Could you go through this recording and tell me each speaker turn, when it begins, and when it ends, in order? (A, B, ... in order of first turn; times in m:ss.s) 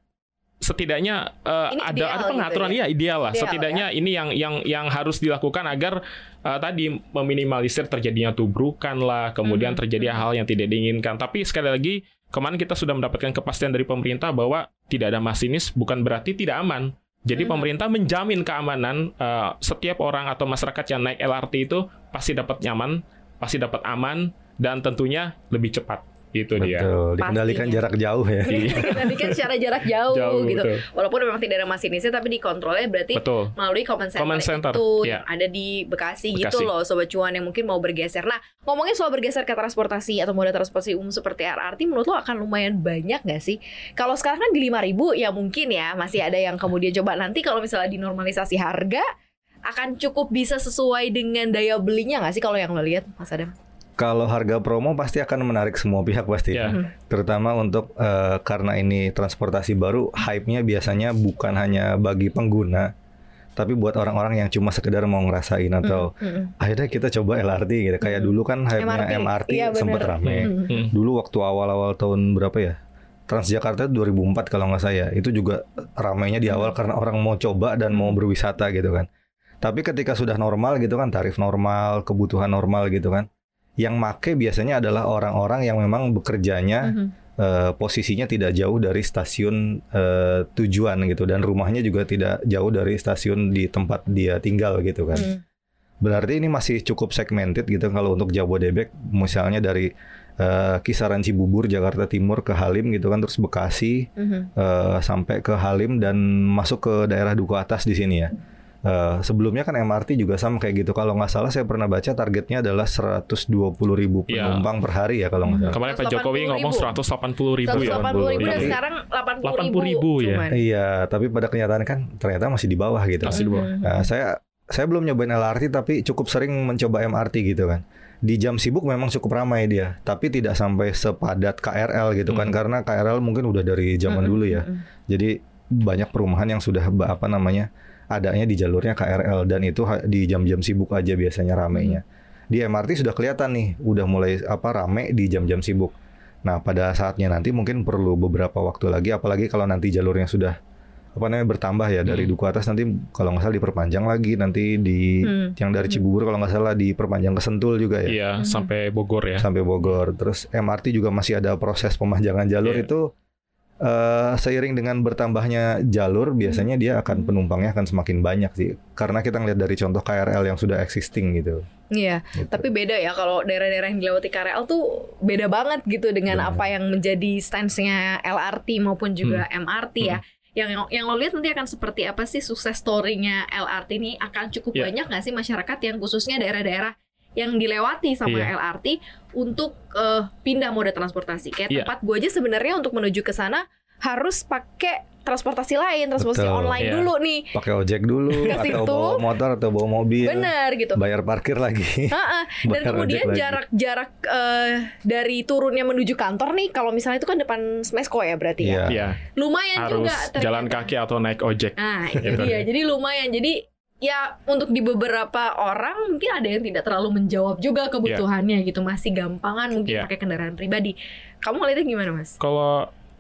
0:00.6-0:26.9 A
0:01.7-0:02.8 B
0:03.3-0:03.8 B
0:09.4-0:10.2 B
0:17.4-0:17.7 B
0:26.6-0:28.9 C
0:27.2-0:27.8 B
0:28.4-0:49.0 B
0:28.5-0:29.4 A
0:30.1-0:30.8 A
0:33.2-0:33.5 A
0:34.2-0:35.2 A
0:36.4-0:36.7 A
0:49.7-0:53.5 B
0:54.0-1:02.9 C
0:56.5-0:56.8 A
1:03.6-1:12.8 C
1:05.8-1:06.5 B
1:08.0-1:10.7 B
1:10.2-1:10.9 A
1:13.3-1:19.1 C
1:16.5-1:16.7 B
1:19.6-1:23.3 C
1:23.8-1:35.3 C
1:26.8-1:27.1 B
1:35.1-1:35.4 B
1:36.0-1:48.3 C
1:44.2-1:44.5 B
1:48.8-1:55.8 C
1:54.3-1:54.7 A
1:55.4-1:57.0 B
1:55.7-1:58.8 A
1:57.6-2:00.6 B
1:57.7-1:58.8 C
1:59.4-2:00.4 A
2:00.5-2:25.9 C
2:03.2-2:03.7 A
2:03.3-2:04.1 B
2:14.1-2:14.8 B
2:21.8-2:22.0 B
2:26.5-2:30.6 C
2:31.2-2:38.2 C
2:32.1-2:32.3 A
2:35.2-2:36.0 B
2:38.1-2:39.5 A
2:38.4-2:38.7 B
2:39.4-2:43.1 C
2:42.6-2:42.9 A
2:43.8-2:51.6 C
2:46.4-2:47.3 B
2:51.9-3:17.6 B
2:52.4-2:52.7 C
2:56.3-2:56.7 C
3:16.2-3:16.8 C
3:16.8-3:17.1 A
3:17.5-3:23.6 C
3:18.4-3:19.2 B
3:20.2-3:21.0 B
3:22.1-3:30.9 B
3:28.6-3:29.1 C
3:28.9-3:29.2 A
3:29.8-3:32.6 A
3:31.8-3:42.4 B
3:32.3-3:32.5 C
3:42.4-3:42.9 A